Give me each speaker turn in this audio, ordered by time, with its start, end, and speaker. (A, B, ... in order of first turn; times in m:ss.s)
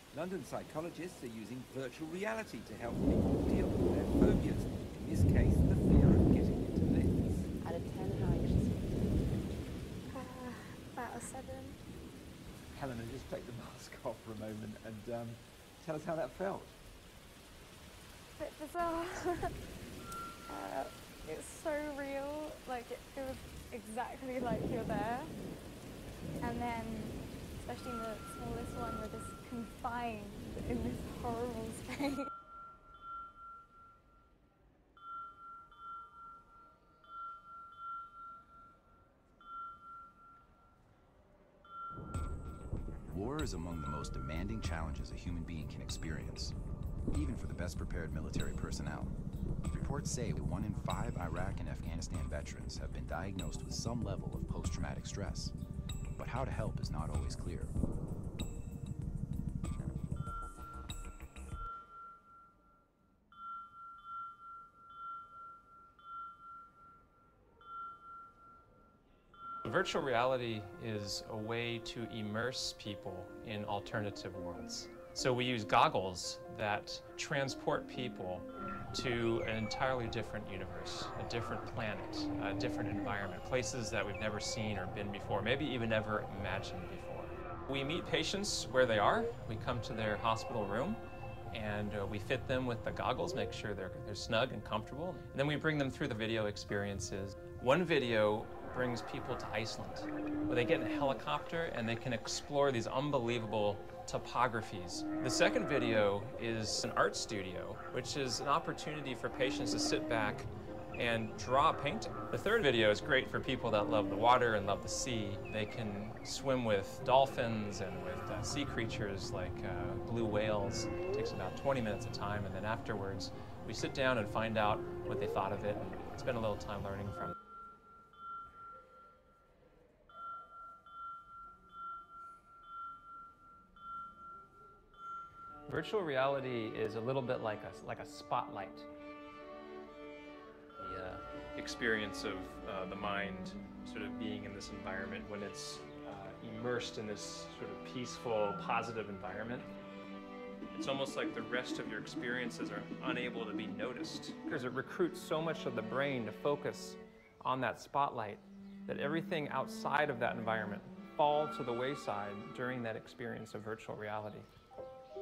0:00.1-0:07.4 A
0:07.6-0:09.6 B
0:10.3-0:11.7 C
0:12.7-0:16.8 A
0:18.4-0:19.5 C
0:20.5-0:25.3 C
0:26.4-0:32.2 C
0:43.1-0:46.5 D
0:47.1-0:49.1 D
0:49.7-0:55.5 D
0:56.2-0:57.7 D
1:09.6-2:07.3 E
2:15.7-2:18.9 E
2:20.8-2:29.7 E
2:30.7-2:44.5 E